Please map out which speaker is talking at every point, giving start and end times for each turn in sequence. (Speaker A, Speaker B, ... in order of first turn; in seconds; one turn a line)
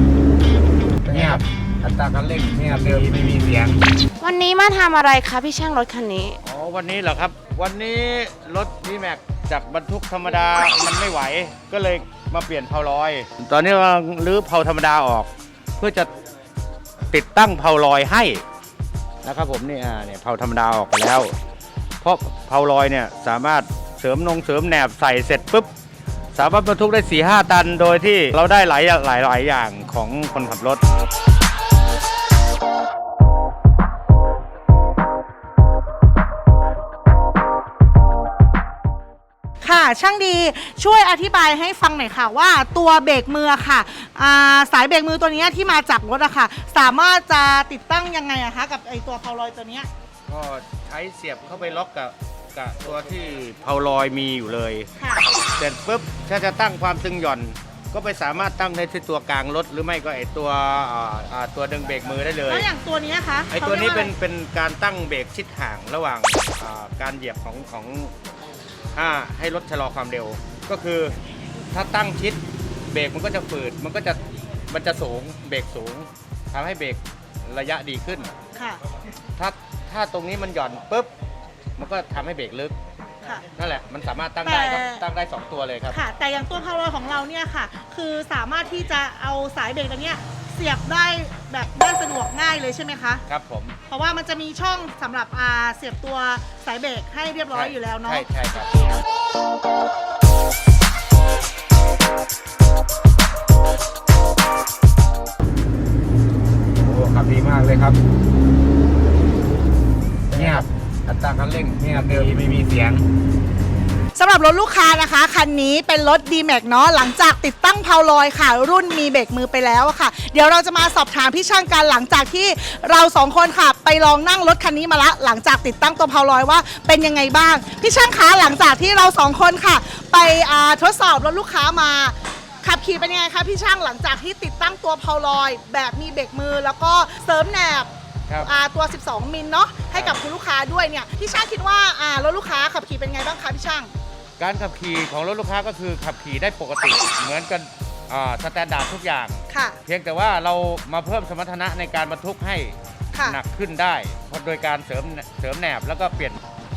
Speaker A: 1.0-3.8
Speaker B: 1.1-1.4
Speaker C: 4.2-6.4
Speaker B: 6.4-16.1
Speaker B: 17.1-18.4
Speaker B: 19.2-21.3
Speaker B: 22.0-25.7
Speaker B: 26.3-30.8
Speaker D: 39.6-49.9
Speaker B: 50.3-54.9
Speaker D: 55.0-55.2
Speaker B: 55.6-62.7
Speaker D: 62.5-64.1
Speaker B: 63.5-68.1
Speaker B: 68.9-71.2
Speaker B: 71.7-78.3
Speaker B: 79.3-81.1
Speaker B: 81.8-82.8
Speaker B: 83.5-86.0
Speaker D: 84.4-85.0
Speaker D: 85.9-93.2
Speaker B: 93.3-93.8
Speaker D: 93.9-98.2
Speaker B: 97.5-98.7
Speaker A: 106.8-108.0
Speaker A: 110.3-113.0
Speaker B: 110.3-110.7
Speaker D: 114.2-137.9
Speaker D: 138.4-143.9
Speaker B: 139.9-140.2
Speaker B: 144.4-156.4
Speaker D: 149.5-149.8
Speaker D: 153.1-153.4